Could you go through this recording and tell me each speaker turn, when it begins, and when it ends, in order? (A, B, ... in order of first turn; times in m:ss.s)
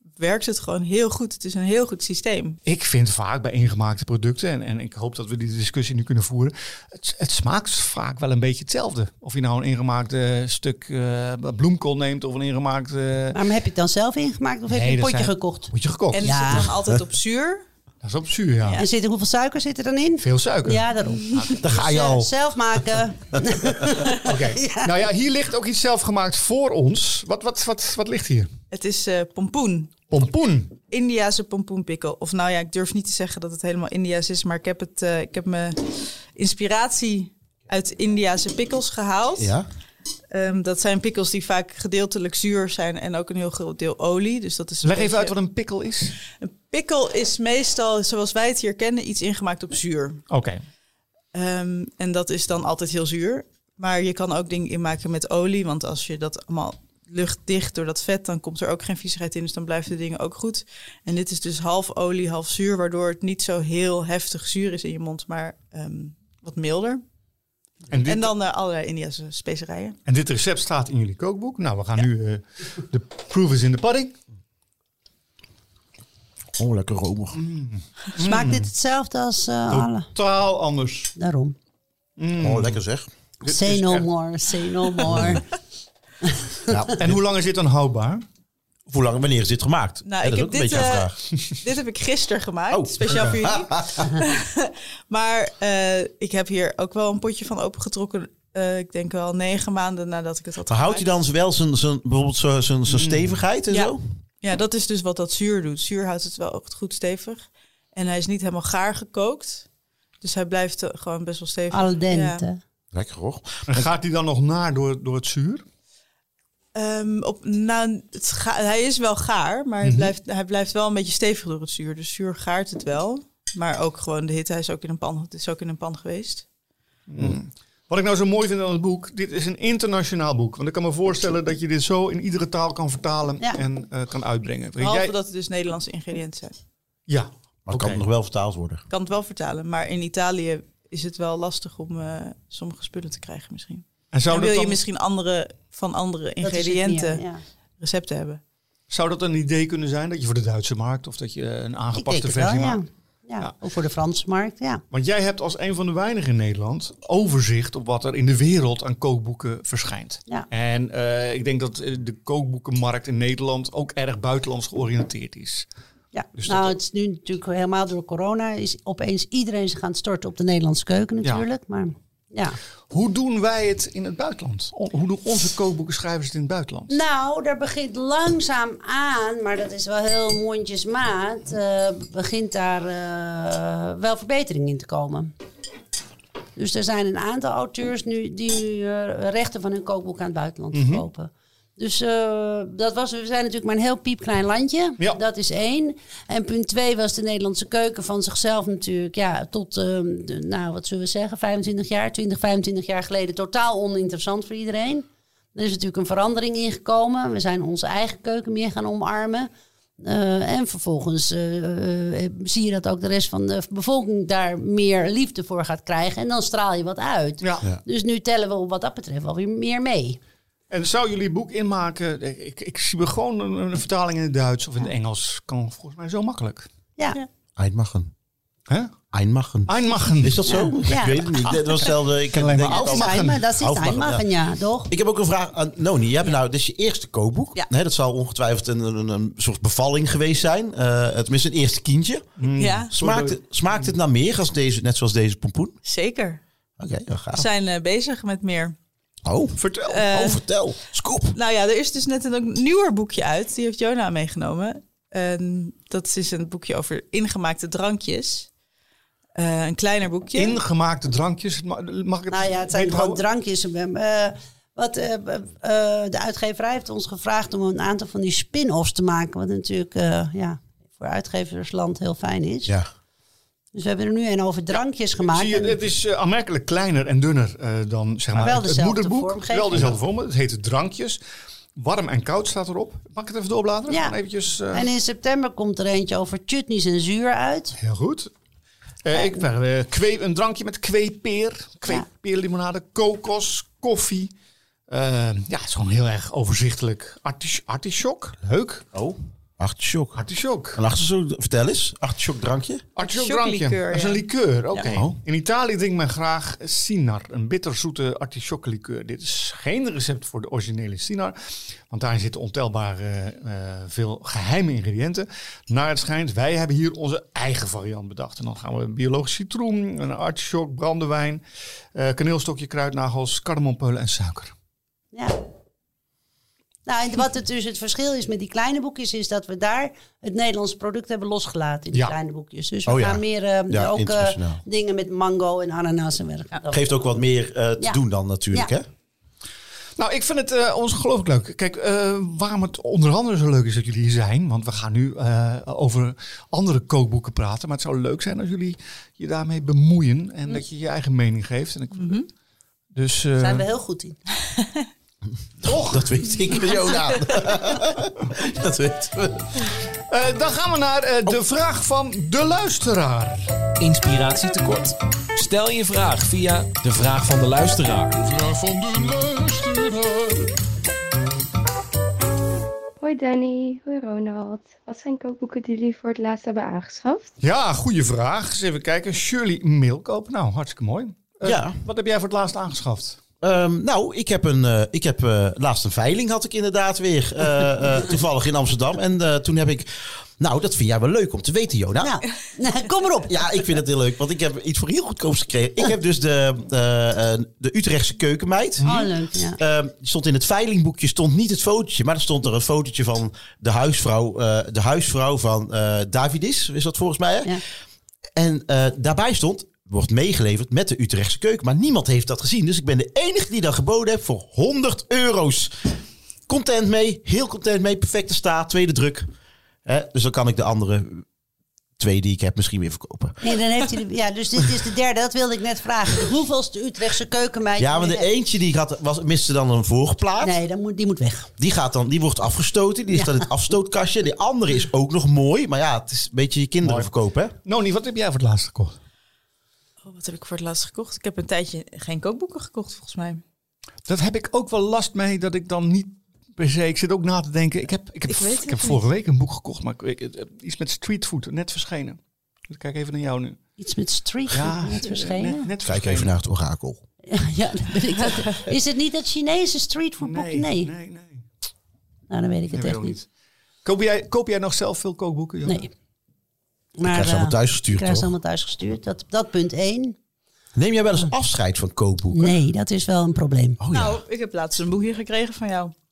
0:00.2-0:02.6 A
0:02.6-0:13.4 B
0:13.3-0:16.7 C
0:14.7-0:16.4 B
0:16.1-0:17.6 A
0:18.0-0:18.8 B
0:18.8-0:24.9 C
0:20.2-0:21.8 B
0:21.6-0:22.3 D
0:24.1-0:28.5 B
0:28.7-0:30.0 A
0:30.1-0:30.7 B
0:30.9-0:39.6 A
0:39.4-0:39.7 D
0:40.3-0:45.4 A
0:44.8-0:46.1 B
0:46.4-0:50.2 A
0:50.3-0:50.6 B
0:51.3-1:07.0 A
1:07.9-1:08.3 B
1:08.0-1:10.0 A
1:10.1-1:14.1 B
1:16.6-1:17.4 D
1:17.4-1:18.7 B
1:18.2-1:20.1 C
1:19.7-1:21.1 B
1:21.2-1:21.6 C
1:22.2-1:22.8 B
1:22.4-1:23.1 D
1:23.4-1:24.1 B
1:23.4-1:25.4 C
1:25.1-1:25.4 D
1:26.7-1:27.2 D
1:27.0-1:28.2 B
1:28.9-1:31.2 D
1:30.1-1:41.1 A
1:32.7-1:34.1 D
1:40.6-1:44.0 D
1:42.9-1:43.4 B
1:43.7-1:49.6 A
1:50.2-1:52.4 A
1:51.7-1:52.6 C
1:52.9-1:53.9 D
1:53.7-1:55.6 B
1:56.7-2:06.4 A
1:59.8-2:00.1 B
2:07.1-2:15.1 B
2:14.8-2:16.6 A
2:17.1-2:18.0 B
2:17.6-2:18.8 D
2:18.9-2:27.2 A
2:24.1-2:24.8 B
2:26.4-2:27.4 C
2:27.8-2:28.4 A
2:28.9-2:32.8 B
2:31.9-2:34.8 C
2:34.9-2:45.7 B
2:46.1-2:52.6 C
2:46.4-2:46.7 B
2:52.9-2:57.0 B
2:56.9-3:05.3 C
3:06.6-3:40.2 C
3:10.7-3:11.0 B
3:37.4-3:37.6 B
3:40.7-3:46.7 B
3:47.6-3:48.1 D
3:48.7-3:48.9 B
3:49.1-3:54.3 D
3:49.7-3:53.4 B
3:50.5-3:51.2 C
3:52.7-3:54.9 C
3:54.9-4:02.3 D
4:02.4-4:03.9 B
4:02.6-4:02.9 A
4:02.9-4:05.7 D
4:05.8-4:06.4 A
4:06.8-4:07.5 D
4:07.4-4:08.7 A
4:09.2-4:11.4 D
4:09.6-4:10.0 B
4:09.9-4:10.4 A
4:11.3-4:18.5 A
4:19.4-4:20.6 A
4:20.4-4:23.2 B
4:22.3-4:32.7 C
4:33.7-4:35.8 C
4:35.2-4:41.2 B
4:38.4-4:39.9 C
4:41.8-4:44.9 B
4:43.9-4:44.2 C
4:44.7-4:47.8 C
4:47.8-4:48.3 B
4:49.0-4:54.3 B
4:49.1-4:49.4 C
4:54.9-4:58.8 B
4:58.9-5:00.2 D
5:00.2-5:00.8 B
5:00.7-5:02.8 D
5:03.0-5:11.4 B
5:03.0-5:05.0 A
5:04.9-5:05.2 D
5:11.9-5:21.4 B
5:21.9-5:24.5 B
5:25.1-5:25.4 C
5:26.9-5:36.8 C
5:32.9-5:34.6 D
5:36.7-5:38.9 D
5:40.0-5:52.2 B
5:52.0-5:52.2 A
5:52.9-5:53.6 B
5:53.4-5:54.2 C
5:54.6-5:54.9 A
5:55.6-5:59.6 D
5:55.6-5:56.1 B
6:00.1-6:03.5 B
6:03.8-6:10.5 E
6:13.0-6:17.3 F
6:17.4-6:23.2 B
6:21.4-6:21.8 D
6:23.4-6:32.2 D
6:32.0-6:33.4 C
6:33.3-6:38.9 D
6:38.8-6:39.1 B
6:38.8-6:39.6 C
6:39.6-6:47.6 D
6:48.4-6:55.9 D
6:56.5-6:59.3 D
6:59.9-7:01.2 D
7:02.0-7:03.4 D
7:03.4-7:08.3 C
7:07.8-7:10.6 D
7:10.4-7:11.5 C
7:11.6-7:17.5 D
7:13.1-7:13.4 C
7:16.8-7:17.1 B
7:17.6-7:19.0 B
7:20.0-7:23.4 A
7:24.1-7:33.6 B
7:28.3-7:29.0 A
7:33.8-7:35.7 C
7:34.5-7:36.3 B
7:35.8-7:37.0 D
7:37.3-7:40.9 C
7:40.2-7:41.4 B
7:42.3-7:43.2 C
7:42.7-7:43.2 B
7:43.8-7:45.8 B
7:45.6-7:45.9 C
7:47.0-7:50.2 C
7:47.0-7:48.3 D
7:50.7-7:52.6 D
7:52.3-7:53.8 C
7:53.8-7:54.2 D
7:53.9-7:55.9 A